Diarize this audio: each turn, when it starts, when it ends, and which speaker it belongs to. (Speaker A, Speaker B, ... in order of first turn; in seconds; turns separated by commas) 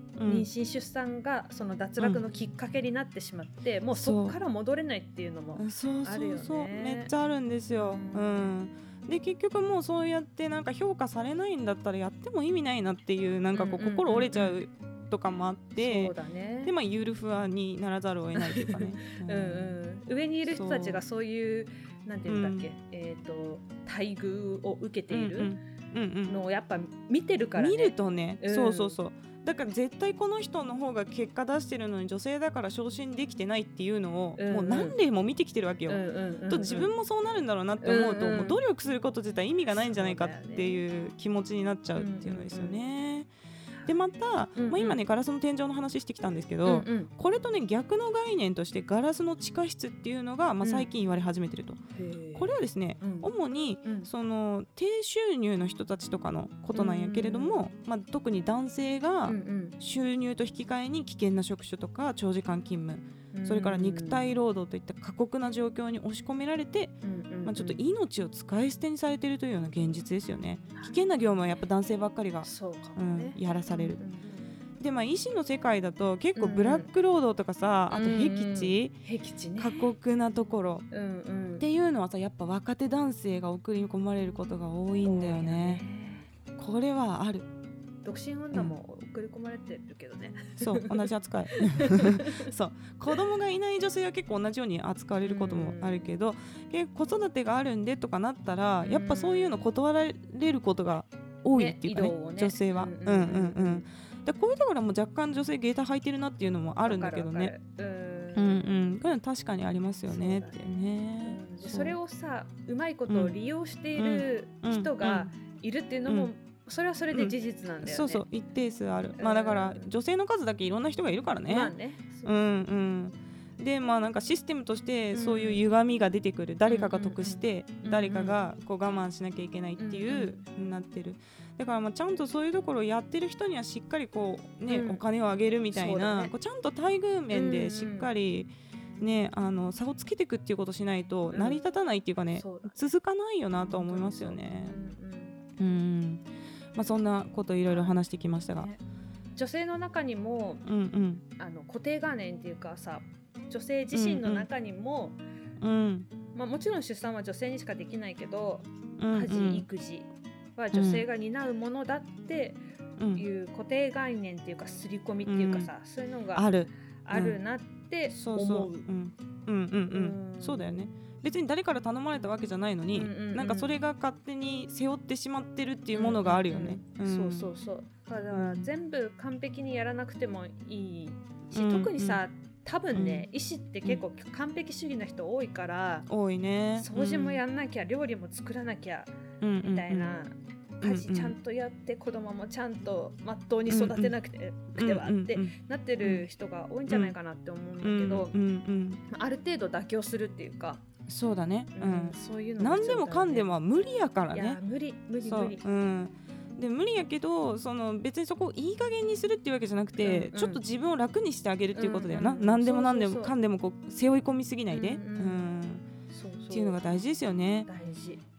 Speaker A: 0.2-0.5, Speaker B: 0.2-7.1, Speaker A: 3.9-4.3, Speaker A: 5.5-16.1, Speaker B: 7.7-8.4, Speaker B: 13.5-14.6, Speaker B: 15.8-16.7, Speaker A: 16.6-19.7, Speaker B: 18.3-25.6, Speaker A: 20.4-21.0, Speaker A: 22.3-22.7, Speaker A: 25.1-26.4, Speaker B: 26.3-29.0, Speaker A: 27.6-43.3, Speaker B: 34.4-35.0, Speaker B: 35.9-36.9, Speaker B: 37.8-38.6, Speaker B: 39.7-40.8, Speaker B: 41.9-42.8, Speaker A: 43.9-51.8, Speaker B: 44.6-45.0, Speaker B: 46.6-47.1, Speaker B: 50.6-50.9, Speaker B: 51.9-53.3, Speaker A: 52.3-74.0, Speaker B: 56.7-57.6, Speaker B: 59.2-59.8, Speaker B: 63.3-64.3, Speaker B: 67.0-67.8, Speaker B: 70.8-71.0, Speaker B: 72.4-74.5, Speaker A: 74.8-78.9, Speaker B: 76.3-76.9, Speaker B: 77.9-79.9, Speaker A: 79.6-80.8, Speaker B: 80.9-81.7, Speaker A: 81.6-85.8, Speaker B: 85.0-86.3, Speaker A: 86.6-87.5, Speaker B: 88.0-92.5, Speaker A: 90.6-107.5, Speaker B: 95.2-96.1, Speaker B: 98.8-99.6, Speaker B: 101.5-103.9, Speaker B: 106.8-108.6, Speaker A: 108.3-112.0, Speaker B: 110.1-118.2, Speaker A: 113.1-113.3, Speaker A: 114.0-115.3, Speaker A: 117.1-144.7, Speaker B: 119.2-119.9, Speaker B: 121.5-122.3, Speaker B: 125.1-125.6, Speaker B: 126.7-128.4, Speaker B: 129.8-130.4, Speaker B: 134.7-135.0, Speaker B: 135.7-136.3, Speaker B: 137.3-138.1, Speaker B: 141.3-141.6, Speaker B: 142.3-142.8, Speaker B: 143.6-145.3, Speaker A: 145.6-148.7, Speaker B: 147.7-148.0, Speaker B: 149.3-150.6, Speaker A: 150.6-151.2, Speaker B: 151.4-155.2, Speaker A: 153.9-154.5, Speaker A: 155.6-156.1, Speaker B: 156.3-162.6, Speaker A: 159.0-159.6, Speaker A: 160.7-161.0, Speaker A: 163.0-163.2, Speaker B: 163.1-168.9, Speaker A: 165.3-165.7, Speaker A: 166.3-167.4, Speaker A: 168.1-177.5, Speaker B: 169.9-170.9, Speaker B: 172.9-173.8, Speaker B: 175.9-186.1, Speaker A: 178.3-178.7, Speaker A: 181.5-182.2, Speaker A: 182.9-183.2, Speaker A: 186.1-187.4, Speaker B: 186.8-189.1, Speaker A: 189.4-190.2, Speaker B: 189.6-198.3, Speaker A: 190.8-191.3, Speaker A: 193.7-194.1, Speaker A: 194.7-196.2, Speaker A: 196.9-197.1, Speaker A: 197.8-199.0, Speaker B: 199.1-200.8, Speaker A: 201.1-204.6, Speaker B: 201.7-203.5, Speaker B: 204.3-205.6, Speaker A: 205.2-215.8, Speaker B: 210.0-210.6, Speaker B: 211.7-213.3, Speaker B: 214.7-215.5, Speaker B: 216.1-216.8, Speaker A: 216.5-217.7, Speaker B: 217.7-218.2